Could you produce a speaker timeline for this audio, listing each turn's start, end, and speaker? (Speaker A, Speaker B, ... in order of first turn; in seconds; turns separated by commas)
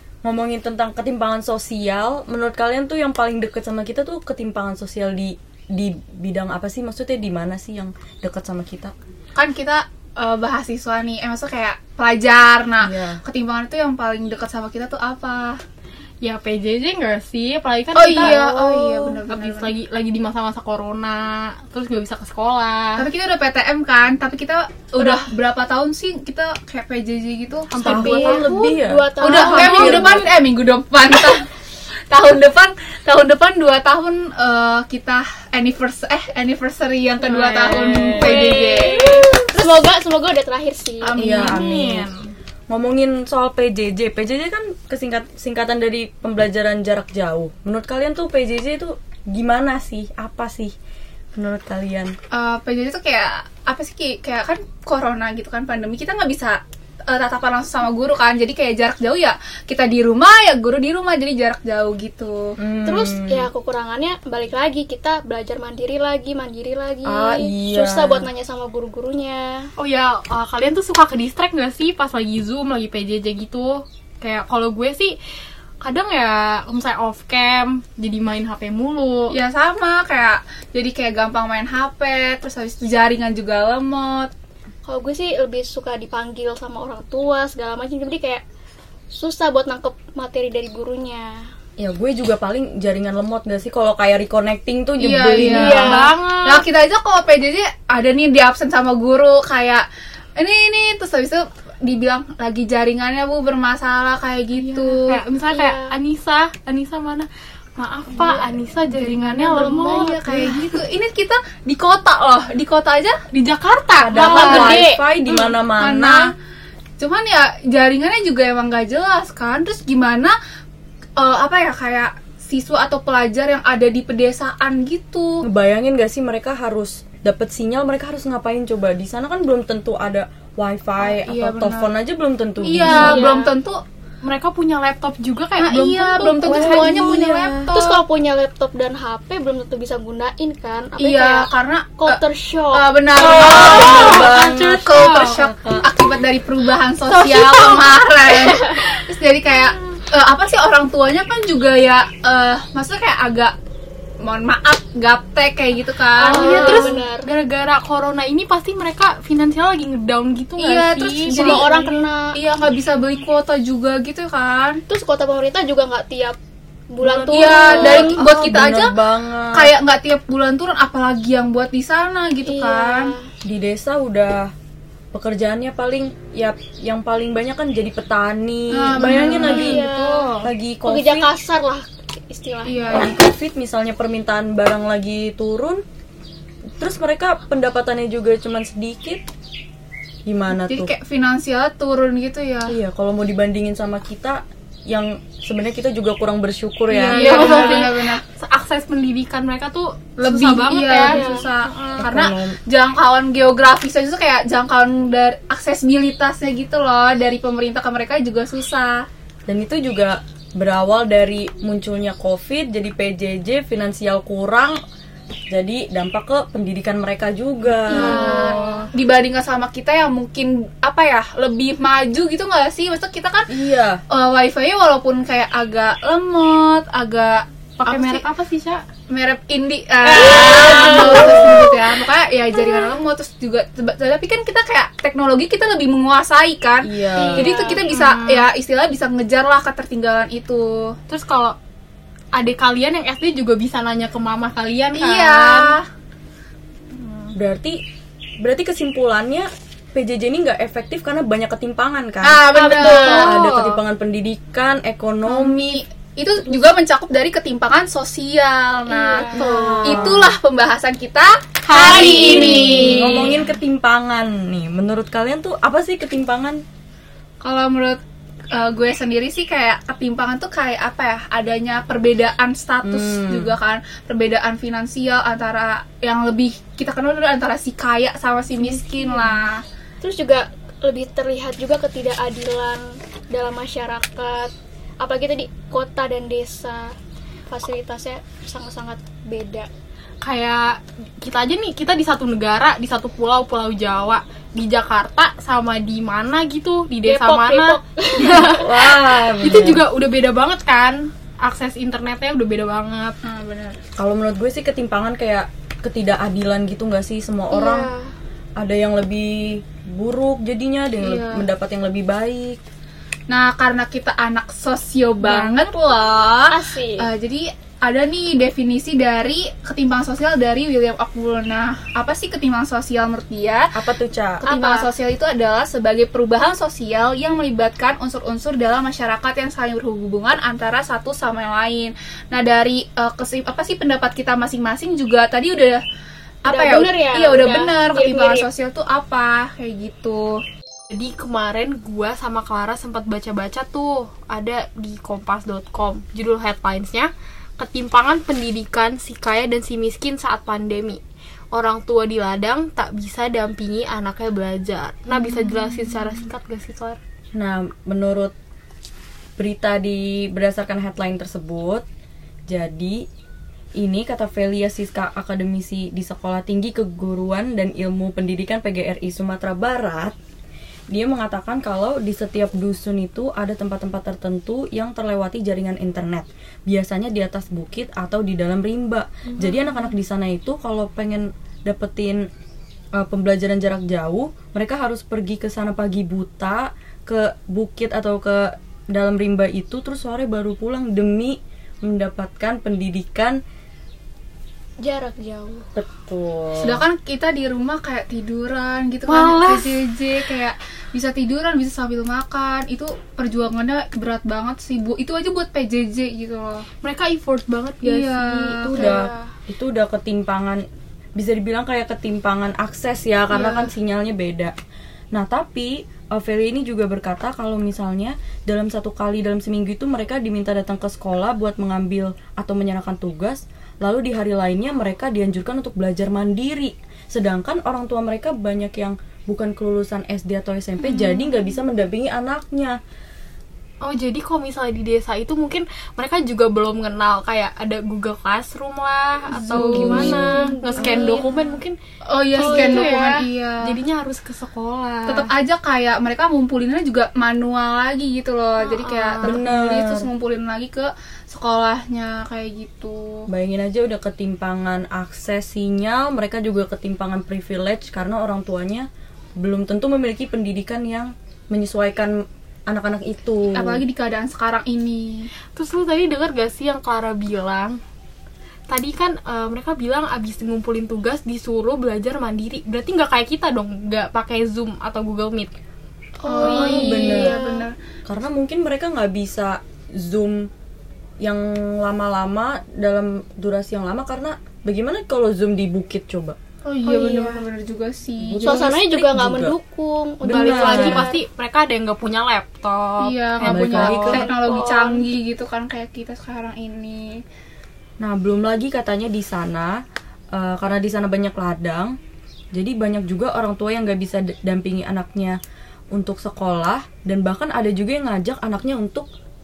Speaker A: 0.2-8.9, Speaker B: 9.3-15.6, Speaker A: 12.8-13.2, Speaker C: 16.2-23.1, Speaker B: 17.9-19.7, Speaker B: 23.0-28.4, Speaker C: 27.7-28.5, Speaker A: 27.8-29.1, Speaker D: 27.9-30.3, Speaker B: 29.2-31.5, Speaker C: 29.3-30.3, Speaker B: 32.1-39.3, Speaker C: 37.2-39.4, Speaker A: 37.8-38.5, Speaker D: 38.3-41.1, Speaker B: 41.0-41.7, Speaker A: 41.2-42.1, Speaker C: 41.3-42.3, Speaker A: 42.7-50.7, Speaker A: 51.3-52.2, Speaker B: 52.3-62.6, Speaker A: 62.6-63.5, Speaker D: 62.8-69.7, Speaker A: 67.0-68.3, Speaker C: 69.8-75.2, Speaker C: 75.8-79.4, Speaker B: 79.3-84.3, Speaker D: 84.9-88.4, Speaker D: 89.1-91.5, Speaker A: 91.8-96.0, Speaker B: 95.0-105.2, Speaker D: 95.4-96.1, Speaker C: 95.4-96.7, Speaker C: 104.5-110.8, Speaker D: 105.5-105.9, Speaker B: 108.0-113.2, Speaker D: 109.5-110.6, Speaker C: 113.3-115.5, Speaker A: 114.0-116.3, Speaker B: 114.2-114.8, Speaker B: 115.8-116.3, Speaker B: 117.0-120.4, Speaker B: 121.2-125.5, Speaker A: 125.4-133.2, Speaker B: 131.0-131.9, Speaker B: 132.6-133.8, Speaker C: 132.8-133.5, Speaker D: 132.9-133.5, Speaker C: 134.2-137.2, Speaker B: 135.6-138.0, Speaker A: 136.5-137.7, Speaker D: 137.7-143.3, Speaker B: 141.0-142.2, Speaker B: 142.7-153.6, Speaker C: 143.2-145.4, Speaker A: 143.5-145.8, Speaker C: 147.1-148.0, Speaker B: 154.2-156.9, Speaker C: 156.2-161.7, Speaker D: 156.3-157.3, Speaker B: 160.6-164.8, Speaker D: 161.3-162.3, Speaker D: 164.9-166.4, Speaker D: 166.9-168.2, Speaker C: 167.0-168.2, Speaker B: 167.3-168.9, Speaker A: 168.0-169.7, Speaker B: 169.5-173.1, Speaker D: 172.4-173.3, Speaker A: 173.4-174.5, Speaker A: 175.1-179.9, Speaker B: 178.7-180.0, Speaker D: 179.0-183.1, Speaker C: 179.2-180.2, Speaker A: 180.4-181.3, Speaker B: 182.7-183.1, Speaker A: 182.9-185.8, Speaker A: 186.8-189.2, Speaker A: 190.3-190.9, Speaker B: 190.5-192.8, Speaker A: 192.7-197.7, Speaker C: 196.9-202.1, Speaker B: 197.1-198.2, Speaker B: 200.2-209.1, Speaker D: 200.7-201.5, Speaker A: 202.0-202.6, Speaker A: 209.5-214.8, Speaker A: 215.5-218.2, Speaker D: 217.9-218.9, Speaker B: 217.9-223.5, Speaker C: 217.9-218.9, Speaker A: 223.5-224.0, Speaker B: 224.1-228.2, Speaker C: 227.8-228.8, Speaker B: 229.1-241.0, Speaker C: 230.1-231.8, Speaker D: 230.4-231.7, Speaker A: 236.8-237.5, Speaker D: 237.2-237.9, Speaker C: 237.2-238.5, Speaker C: 241.1-241.6, Speaker C: 242.3-245.8, Speaker B: 244.9-245.9, Speaker C: 246.9-247.3, Speaker A: 247.3-247.8, Speaker A: 248.4-255.8, Speaker B: 252.2-253.4, Speaker D: 252.6-253.3, Speaker C: 252.8-253.8, Speaker B: 255.3-263.4, Speaker D: 258.9-260.1, Speaker A: 259.3-260.4, Speaker C: 261.7-263.4, Speaker D: 261.7-263.2, Speaker A: 262.7-266.6, Speaker B: 267.4-268.0, Speaker B: 268.5-279.6, Speaker A: 272.8-273.6, Speaker C: 278.6-279.4, Speaker D: 280.0-287.0, Speaker D: 287.5-289.7, Speaker C: 290.2-303.2, Speaker D: 297.1-298.7, Speaker A: 298.5-299.8, Speaker B: 303.2-303.8, Speaker A: 304.0-307.9, Speaker D: 307.5-308.1, Speaker A: 308.6-312.6, Speaker B: 311.0-311.5, Speaker B: 313.3-323.7, Speaker A: 315.2-315.5, Speaker D: 316.5-317.1, Speaker A: 323.7-324.4, Speaker B: 324.4-335.8, Speaker D: 324.4-324.9, Speaker B: 336.4-340.4, Speaker D: 336.5-338.5, Speaker C: 340.9-351.0, Speaker C: 351.5-357.0, Speaker A: 357.4-358.3, Speaker A: 359.4-361.9, Speaker A: 362.5-363.1, Speaker A: 363.8-370.2, Speaker A: 370.9-382.3, Speaker A: 382.9-393.4, Speaker D: 394.8-395.7, Speaker A: 395.8-396.8, Speaker B: 396.6-406.7, Speaker C: 399.1-399.8, Speaker C: 406.8-409.1, Speaker B: 407.8-409.0, Speaker A: 408.7-410.6, Speaker D: 409.0-409.3, Speaker A: 411.2-414.6, Speaker B: 413.3-413.7, Speaker A: 415.1-432.8, Speaker C: 433.8-441.8, Speaker B: 439.3-441.3, Speaker A: 439.5-440.3, Speaker D: 440.1-441.6, Speaker B: 442.1-443.8, Speaker C: 442.3-445.3, Speaker D: 442.4-443.0, Speaker B: 445.1-453.3, Speaker C: 448.8-449.4, Speaker A: 449.2-450.1, Speaker A: 453.3-463.8, Speaker B: 463.5-465.3, Speaker C: 465.6-467.8, Speaker C: 468.7-475.5, Speaker D: 476.2-477.7, Speaker B: 476.2-477.8, Speaker A: 476.4-477.4, Speaker A: 478.1-480.5, Speaker A: 481.2-486.4, Speaker B: 486.6-488.8, Speaker D: 486.9-487.5, Speaker A: 488.2-489.6, Speaker D: 488.4-491.1, Speaker A: 490.2-491.1, Speaker C: 490.3-494.2, Speaker B: 493.0-497.2, Speaker A: 493.5-494.2, Speaker D: 494.1-495.1, Speaker A: 498.0-499.8, Speaker A: 500.3-502.0, Speaker A: 502.5-505.4, Speaker A: 505.9-509.1